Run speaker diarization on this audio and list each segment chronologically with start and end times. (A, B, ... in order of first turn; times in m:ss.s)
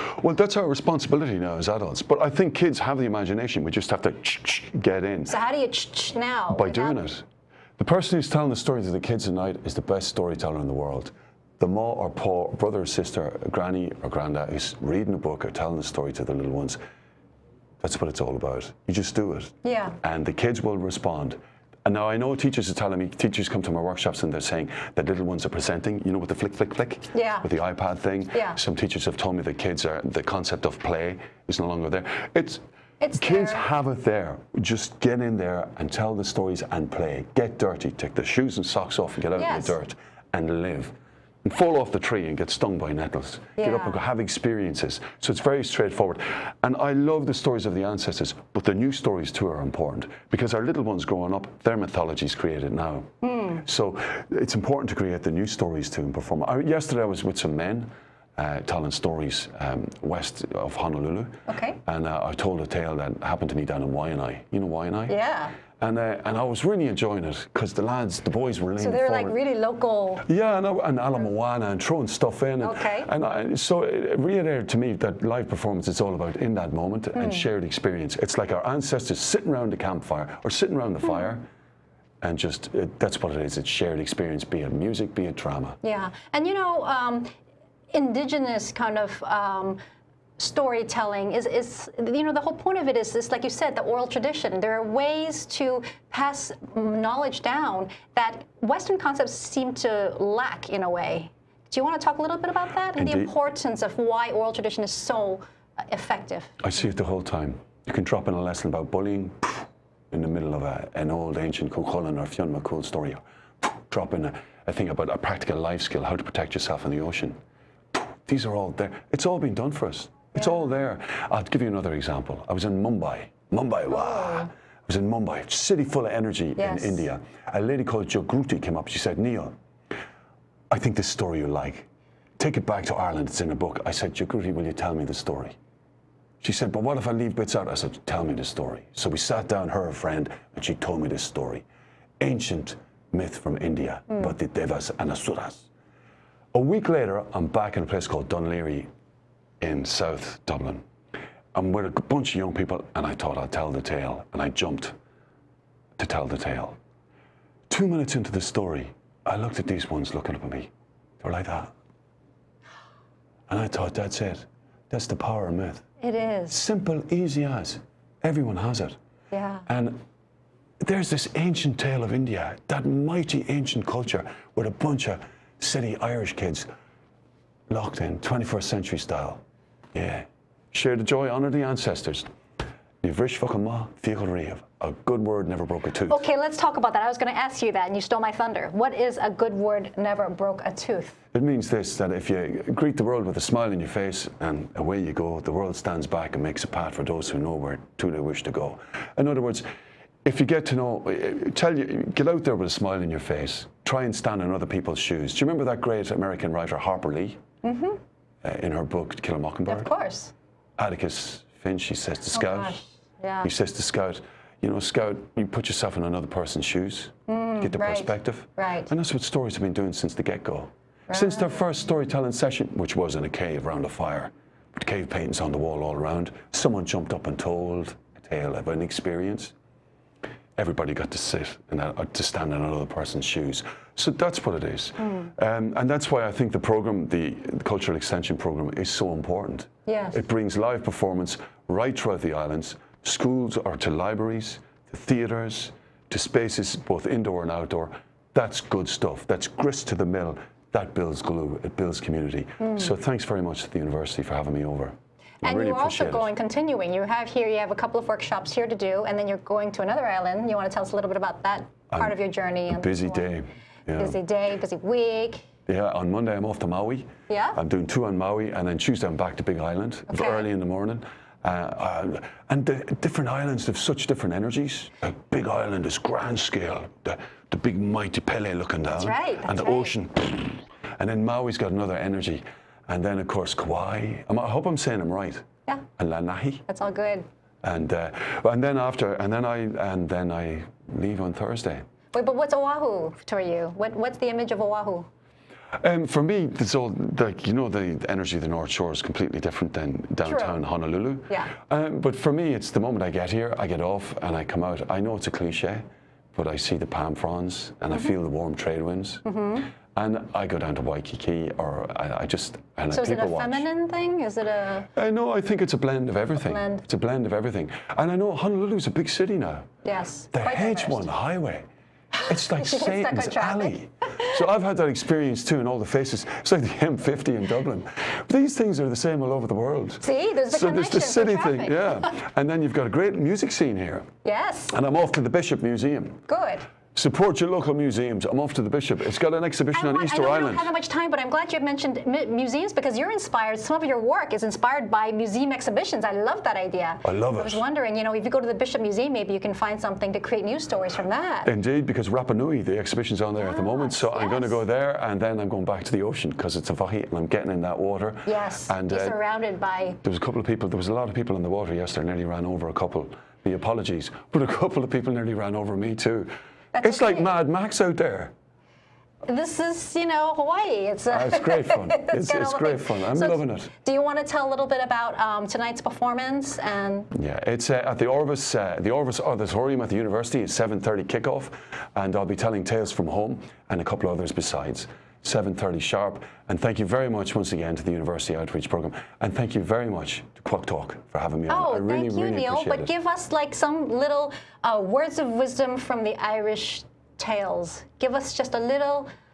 0:00.1-0:05.4 A
0:05.3-0:07.0 B
0:06.5-0:07.2 A
0:07.8-0:16.8 A
0:17.8-0:32.6 A
0:19.6-0:20.0 B
0:27.1-0:27.4 B
0:28.3-0:28.6 B
0:33.0-0:33.6 B
0:33.1-1:05.2 A
0:39.4-0:39.7 B
0:43.6-0:44.0 B
0:53.2-0:53.6 B
1:01.5-1:01.8 B
1:05.1-1:05.6 B
1:05.7-1:09.4 A
1:08.8-1:10.2 B
1:10.2-1:21.4 A
1:12.6-1:13.1 B
1:17.2-1:17.4 B
1:22.2-1:25.8 A
1:25.8-1:27.3 B
1:27.9-1:29.8 B
1:30.4-1:46.5 B
1:43.0-1:43.3 A
1:46.6-1:57.4 A
1:57.9-2:09.5 A
2:04.0-2:04.5 B
2:06.6-2:07.0 B
2:10.7-2:15.6 A
2:16.4-2:21.6 A
2:22.2-2:25.7 A
2:26.5-2:28.9 A
2:29.6-2:30.8 A
2:31.5-2:34.9 A
2:36.0-2:36.8 A
2:37.7-2:41.7 A
2:43.5-2:45.8 A
2:46.0-2:46.6 B
2:46.5-2:48.9 A
2:49.3-2:49.6 B
2:49.7-2:50.0 A
2:50.8-2:56.7 A
2:57.7-2:59.4 A
2:59.9-3:02.3 A
3:03.0-3:06.2 A
3:06.1-3:11.2 B
3:11.3-3:19.6 A
3:20.2-3:27.4 A
3:27.6-3:28.0 B
3:28.4-3:29.9 A
3:29.7-3:30.3 B
3:30.8-3:32.8 A
3:32.3-3:33.5 B
3:33.4-3:49.5 A
3:37.3-3:38.9 B
3:41.1-3:41.4 B
3:50.6-4:16.3 A
3:55.0-3:55.3 B
3:59.9-4:00.2 B
4:12.6-4:12.9 B
4:15.4-4:23.2 B
4:21.9-4:22.2 A
4:22.7-4:24.2 A
4:23.9-4:25.4 B
4:25.6-4:45.4 A
4:27.3-4:27.6 B
4:30.1-4:30.4 B
4:39.0-4:39.9 B
4:46.0-4:46.6 A
4:46.7-4:47.2 B
4:47.6-4:51.8 A
4:52.1-4:55.1 B
4:55.8-5:09.2 A
5:00.2-5:00.6 B
5:09.2-5:09.7 B
5:09.8-5:13.7 A
5:12.9-5:14.9 B
5:14.9-5:19.7 A
5:16.4-5:16.8 B
5:19.8-5:21.1 B
5:20.3-5:21.6 A
5:22.2-5:24.4 B
5:22.2-5:34.1 A
5:30.0-5:32.1 B
5:34.2-5:34.7 B
5:34.7-5:36.2 A
5:36.3-5:36.6 B
5:36.9-5:40.7 A
5:39.7-5:51.5 B
5:47.0-5:47.6 A
5:51.4-5:59.2 A
5:53.4-5:54.6 B
5:58.2-6:00.0 B
6:00.0-6:08.3 A
6:06.7-6:07.2 B
6:09.2-6:17.1 B
6:11.1-6:13.7 A
6:17.1-6:32.9 A
6:31.5-6:39.1 B